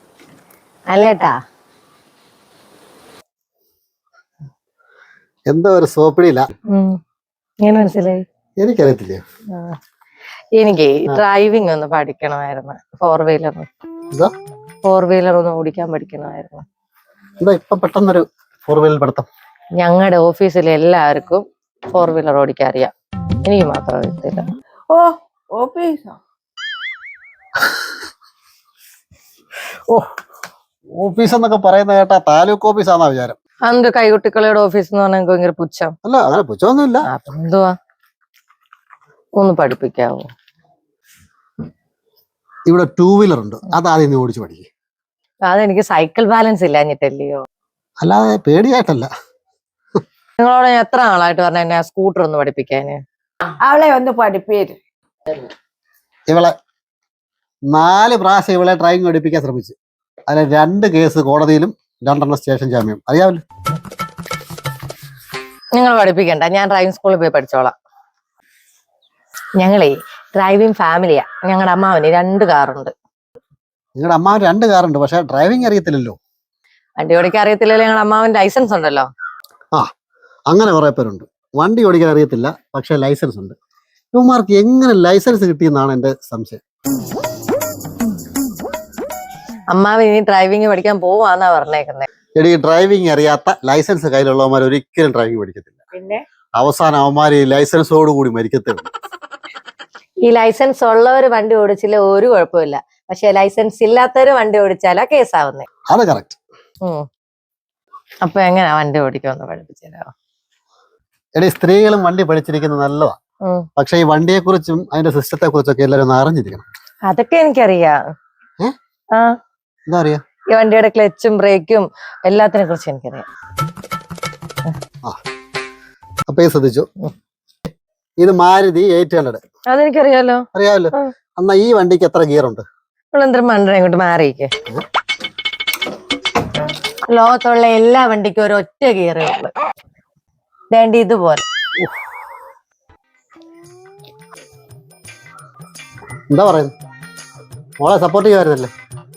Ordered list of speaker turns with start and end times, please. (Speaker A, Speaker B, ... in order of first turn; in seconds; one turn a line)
Speaker A: 0.9-1.4
Speaker B: 5.5-6.5
Speaker A: 6.7-7.0
Speaker A: 7.6-8.2
Speaker B: 8.6-9.2
Speaker A: 10.6-13.7
Speaker A: 14.9-16.6
Speaker B: 17.4-19.3
Speaker A: 19.8-22.9
Speaker A: 23.4-24.5
Speaker C: 24.9-26.2
Speaker B: 30.9-33.4
Speaker A: 33.6-35.9
Speaker B: 36.0-37.1
Speaker A: 37.1-37.7
Speaker A: 39.4-40.3
Speaker B: 42.7-44.7
Speaker A: 45.5-47.4
Speaker B: 48.0-49.1
Speaker A: 50.4-53.0
Speaker C: 53.6-54.8
Speaker B: 57.7-59.8
Speaker B: 60.3-63.4
Speaker A: 65.7-67.7
Speaker A: 69.6-72.9
Speaker B: 74.0-76.2
Speaker A: 77.0-79.1
Speaker B: 80.5-83.5
Speaker B: 84.1-86.6
Speaker A: 89.7-92.1
Speaker B: 92.4-95.8
Speaker A: 95.9-96.2
Speaker B: 96.6-98.9
Speaker A: 100.2-105.7
Speaker B: 105.9-106.4
Speaker A: 108.2-110.1
Speaker B: 111.4-113.2
Speaker B: 113.8-116.6
Speaker A: 117.1-118.0
Speaker B: 119.9-120.2
Speaker A: 120.5-123.3
Speaker B: 126.3-126.9
Speaker B: 128.2-129.4
Speaker A: 129.7-131.1
Speaker B: 130.5-132.6
Speaker A: 133.1-134.5
Speaker A: 137.1-139.5
Speaker A: 140.7-141.4
Speaker B: 141.8-142.1
Speaker B: 146.3-146.7
Speaker B: 147.8-148.7